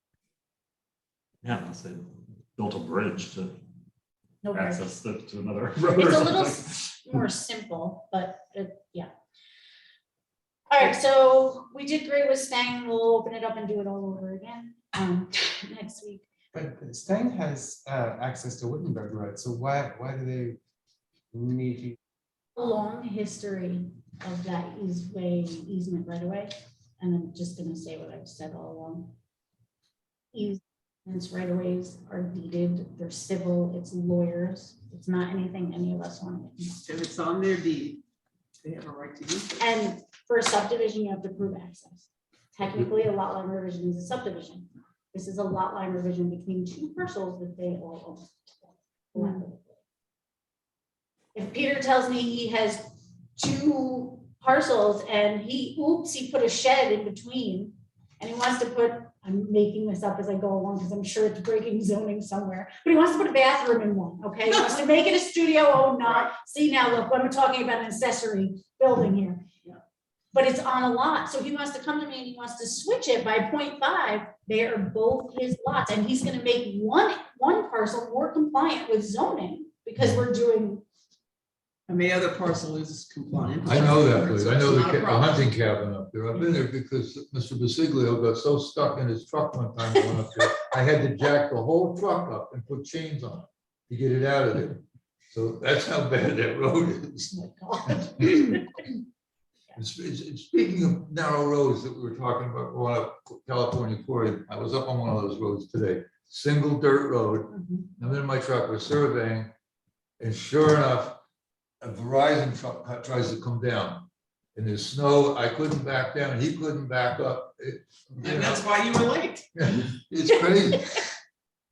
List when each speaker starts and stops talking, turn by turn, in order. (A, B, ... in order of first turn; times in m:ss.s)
0:01.4-0:03.6 A
0:04.4-0:04.9 B
0:04.5-0:06.8 A
0:05.8-0:09.1 B
0:10.7-0:16.2 B
0:16.5-0:20.6 C
0:21.3-0:22.0 C
0:22.6-0:29.1 B
0:30.3-0:36.8 B
0:36.8-0:38.0 D
0:38.6-0:39.6 D
0:39.6-0:49.8 B
0:51.3-0:52.8 B
0:53.4-1:09.4 B
1:04.5-1:04.8 D
1:06.0-1:06.4 D
1:10.3-1:20.8 B
1:21.9-1:25.5 D
1:23.6-1:37.3 E
1:37.3-1:38.6 B
1:37.8-1:38.9 E
1:39.8-1:49.5 E
1:47.5-1:47.8 B
1:50.2-1:51.2 E
1:51.8-1:58.6 E
1:58.2-1:59.5 D
1:59.6-2:01.1 E